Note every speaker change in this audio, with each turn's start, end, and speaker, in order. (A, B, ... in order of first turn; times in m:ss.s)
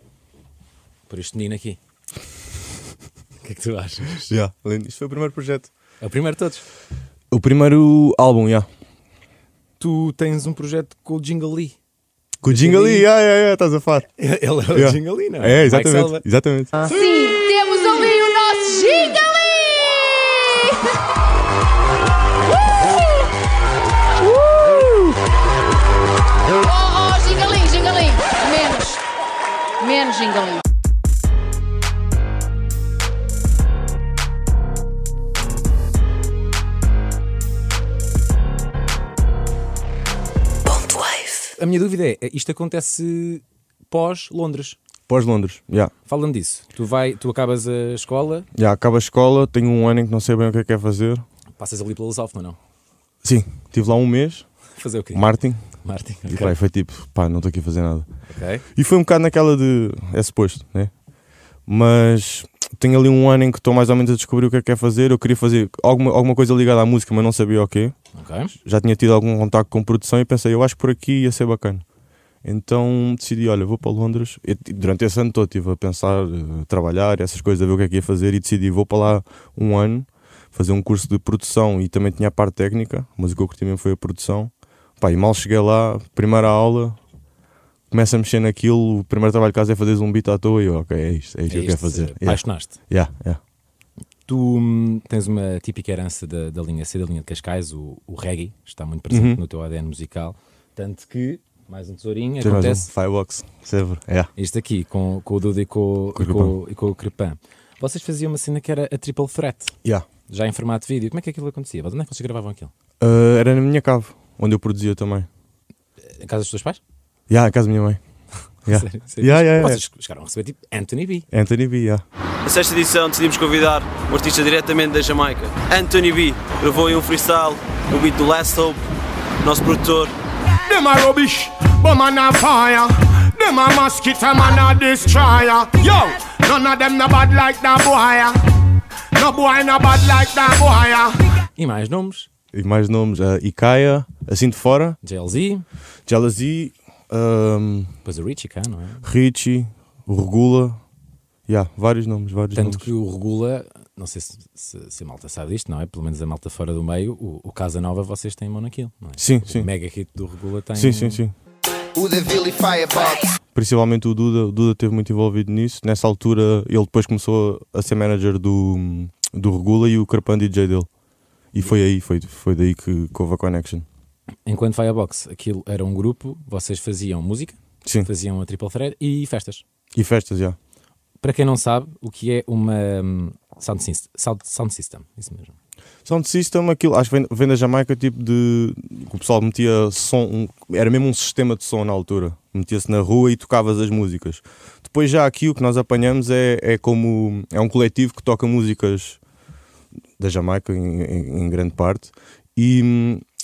0:01.1-0:01.8 A
0:03.4-0:04.3 A
0:04.3-0:05.7 B
0:06.0-0:06.6 A
0:07.3-0:08.7 B
0:09.8-0:11.8 A
0:12.4-0:14.1 B
0:12.5-0:13.1 A
0:14.2-0:16.2 A
0:14.7-0:16.9 B
0:16.8-0:19.5 C
0:20.4-0:21.0 C
0:24.3-0:25.1 C
0:26.5-0:29.0 C
0:29.8-0:30.6 C
0:40.6-0:41.5 C
0:41.6-0:44.8 A
0:45.1-0:45.9 B
0:46.1-0:48.5 A
0:48.5-0:51.2 B
0:51.6-0:52.6 A
0:53.2-0:54.5 B
0:54.8-0:55.3 A
0:55.1-0:55.6 B
0:55.8-0:56.6 A
0:56.3-0:58.1 B
0:58.3-0:58.6 A
0:58.7-1:00.9 B
1:01.7-1:07.9 B
1:08.1-1:08.5 A
1:08.6-1:11.8 B
1:12.4-1:27.0 B
1:27.9-1:33.4 B
1:31.5-1:32.8 A
1:34.3-1:42.9 A
1:39.1-1:39.4 B
1:42.4-1:44.3 B
1:44.4-1:49.8 A
1:46.2-1:46.5 B
1:50.3-1:52.7 A
1:53.0-1:55.3 B
1:56.1-1:56.8 A
1:57.3-1:58.0 B
1:58.7-1:59.8 B
1:58.7-2:01.3 A
2:01.3-2:02.0 B
2:02.4-2:08.8 D
2:09.4-2:10.1 D
2:10.6-2:18.4 E
2:19.2-2:21.3 E
2:21.6-2:22.3 A
2:22.5-2:25.0 B
2:25.0-2:25.7 A
2:26.1-2:27.9 B
2:28.0-2:29.1 A
2:29.0-2:30.8 B
2:31.5-2:32.9 B
2:32.6-2:41.2 A
2:39.2-2:39.7 B
2:40.8-2:41.3 B
2:42.0-2:43.4 E
2:43.5-2:50.9 B
2:51.5-2:53.8 B
2:54.5-2:59.6 A
3:00.0-3:00.6 B
3:01.2-3:05.6 A
3:06.0-3:19.2 B
3:20.2-3:23.2 B